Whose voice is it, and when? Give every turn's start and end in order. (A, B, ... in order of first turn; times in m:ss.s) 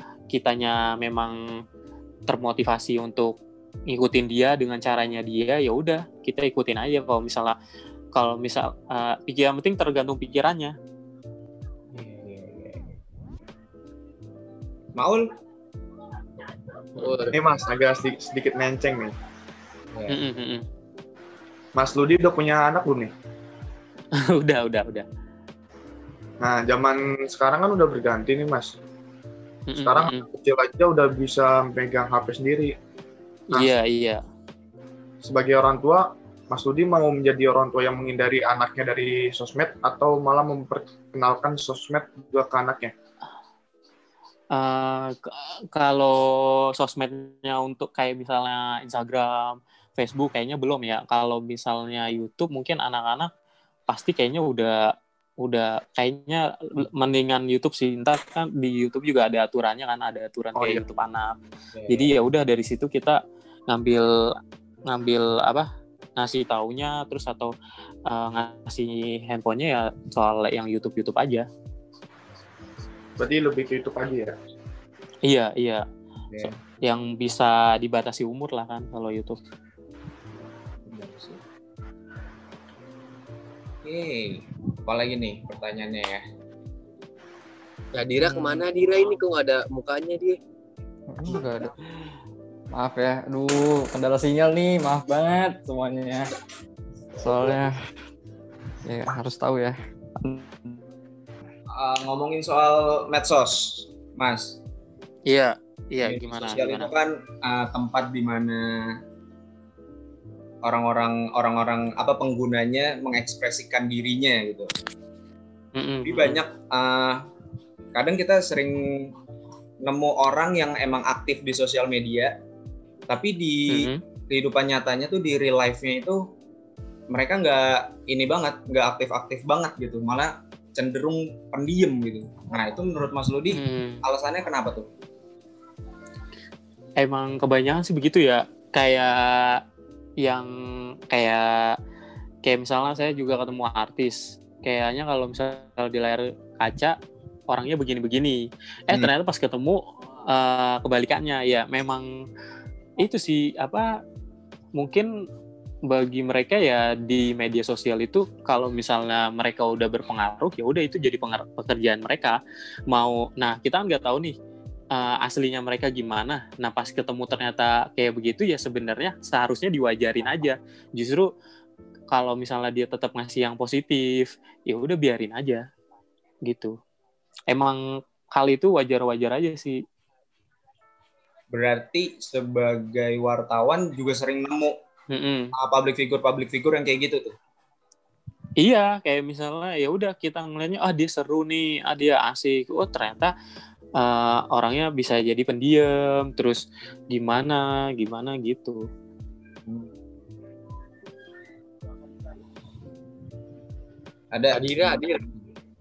0:00.3-0:01.4 A
0:02.3-0:03.4 A
0:03.9-0:07.6 A
0:08.2-0:10.8 A
0:11.9-0:13.0 B
0:15.0-0:15.2 B
0:17.0-0:17.3 A
0:17.0-0:17.4 C
0:17.3-0:19.2 D
0:19.9-0:20.2 B
0:20.1-0:20.6 A
0:21.8-0:23.1 D
0:24.2-0:25.1 A
0:26.4-0:28.8 D
0:29.7-0:30.3 A
0:29.7-0:32.8 D
0:33.5-0:34.2 A
0:35.2-0:42.9 D
0:44.5-0:53.3 A
0:53.9-0:54.8 A
0:55.4-1:01.4 A
1:00.6-1:00.8 D
1:01.7-1:02.1 B
1:01.9-1:04.2 A
1:04.9-1:07.5 A
1:08.1-1:11.5 A
1:13.2-1:14.4 D
1:15.2-1:15.8 A
1:16.4-1:19.4 A
1:20.8-1:21.4 B
1:23.8-1:26.2 B
1:28.0-1:30.4 C
1:31.1-1:31.8 E
1:32.7-1:36.3 E
1:37.2-1:37.8 E
1:38.9-1:40.8 E
1:41.7-1:44.6 B
1:45.3-1:46.9 A
1:46.0-1:49.0 B
1:50.6-1:54.7 B
1:55.8-1:56.4 A
1:56.0-1:57.2 B
1:57.9-1:59.2 B
1:59.8-2:02.4 B
2:03.1-2:06.2 B
2:03.7-2:04.0 A
2:07.1-2:14.9 B
2:13.5-2:14.0 A
2:17.0-2:19.6 A
2:20.2-2:20.5 A
2:21.1-2:21.8 A
2:22.4-2:27.0 A
2:27.5-2:32.1 A
2:33.0-2:33.9 A
2:34.8-2:35.1 A
2:35.9-2:44.4 A
2:44.9-2:51.3 A
2:52.1-2:55.6 A
2:56.5-2:56.8 A
2:57.5-2:57.8 A
2:58.4-2:59.8 A
3:01.5-3:04.8 B
3:05.1-3:05.5 A
3:05.6-3:07.3 B
3:08.6-3:13.3 A
3:14.0-3:18.8 A
3:19.7-3:19.9 B
3:24.3-3:25.5 B
3:24.5-3:25.2 C